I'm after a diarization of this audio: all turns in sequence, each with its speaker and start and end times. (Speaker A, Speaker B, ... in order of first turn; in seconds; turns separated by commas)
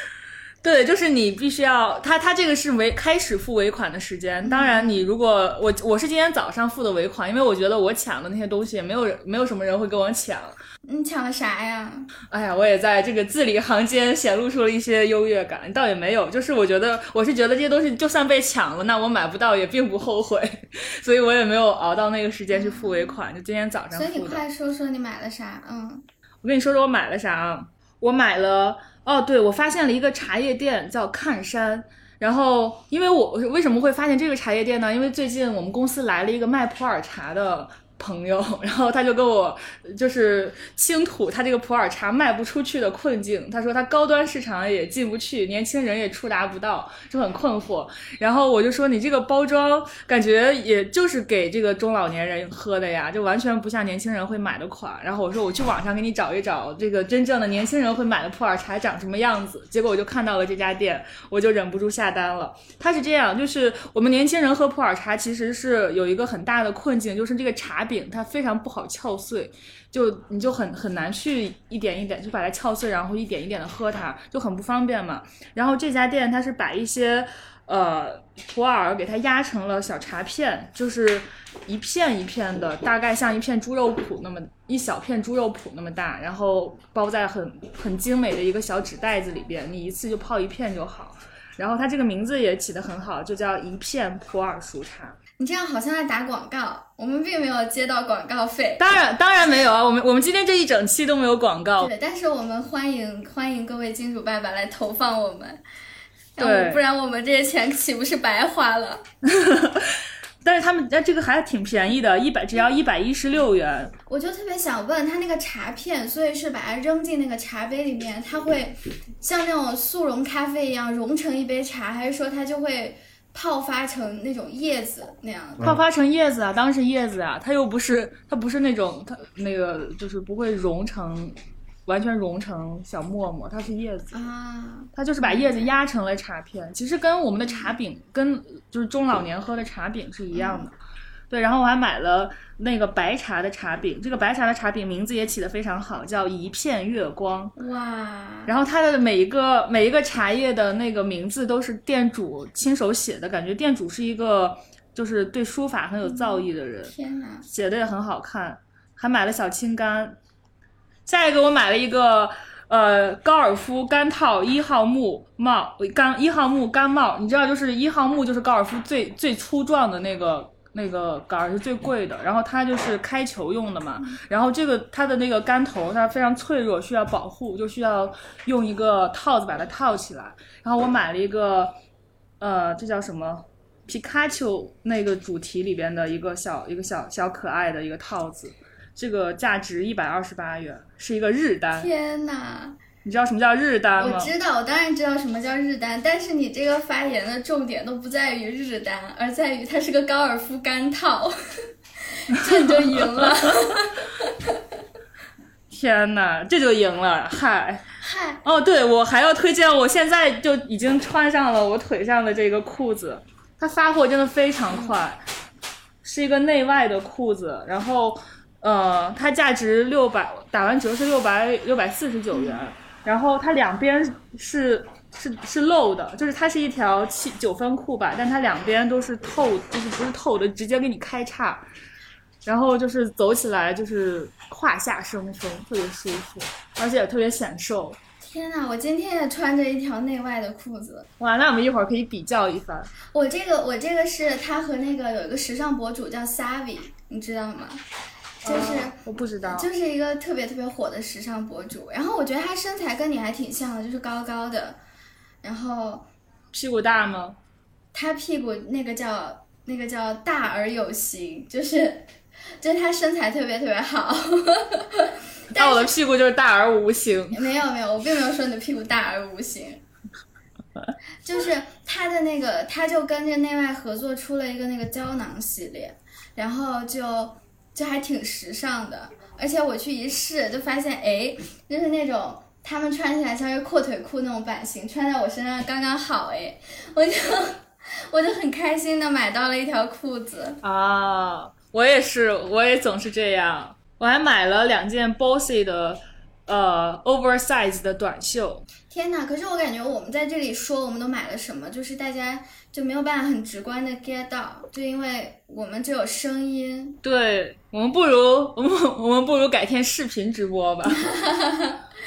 Speaker A: 0.6-10.6, Speaker B: 4.4-5.1, Speaker B: 10.9-12.1, Speaker A: 12.3-24.4, Speaker B: 22.5-23.2, Speaker B: 23.9-26.0, Speaker A: 26.4-95.2, Speaker B: 95.4-98.8, Speaker A: 98.8-101.9, Speaker B: 101.8-105.6, Speaker B: 106.3-109.0, Speaker A: 106.4-106.8, Speaker A: 109.3-113.9, Speaker B: 114.1-125.8, Speaker A: 125.6-131.3, Speaker A: 131.8-134.2, Speaker B: 134.1-135.5, Speaker A: 134.9-140.7, Speaker B: 140.3-140.7, Speaker A: 141.3-147.5, Speaker B: 147.6-148.5, Speaker A: 148.5-156.9, Speaker B: 156.0-157.4, Speaker A: 157.5-160.2, Speaker A: 161.1-181.7, Speaker A: 182.4-191.9, Speaker B: 191.8-192.8, Speaker A: 193.0-194.3, Speaker B: 194.0-201.3, Speaker B: 202.1-204.3, Speaker A: 202.6-203.3, Speaker A: 205.7-207.8, Speaker B: 208.0-208.4, Speaker A: 208.4-215.2, Speaker B: 214.7-215.0, Speaker A: 216.0-231.6, Speaker B: 222.3-222.6, Speaker A: 232.4-238.0, Speaker B: 238.2-241.1, Speaker A: 241.2-242.9, Speaker B: 243.1-247.8, Speaker B: 248.4-249.0, Speaker A: 248.4-249.7, Speaker B: 249.5-254.8, Speaker B: 255.4-256.1, Speaker A: 256.5-257.4, Speaker B: 257.9-262.1, Speaker B: 262.6-265.9, Speaker A: 265.6-267.4, Speaker B: 267.3-269.8, Speaker B: 271.2-290.6, Speaker A: 290.6-298.6, Speaker B: 298.9-307.0, Speaker A: 307.0-311.1, Speaker B: 311.0-311.8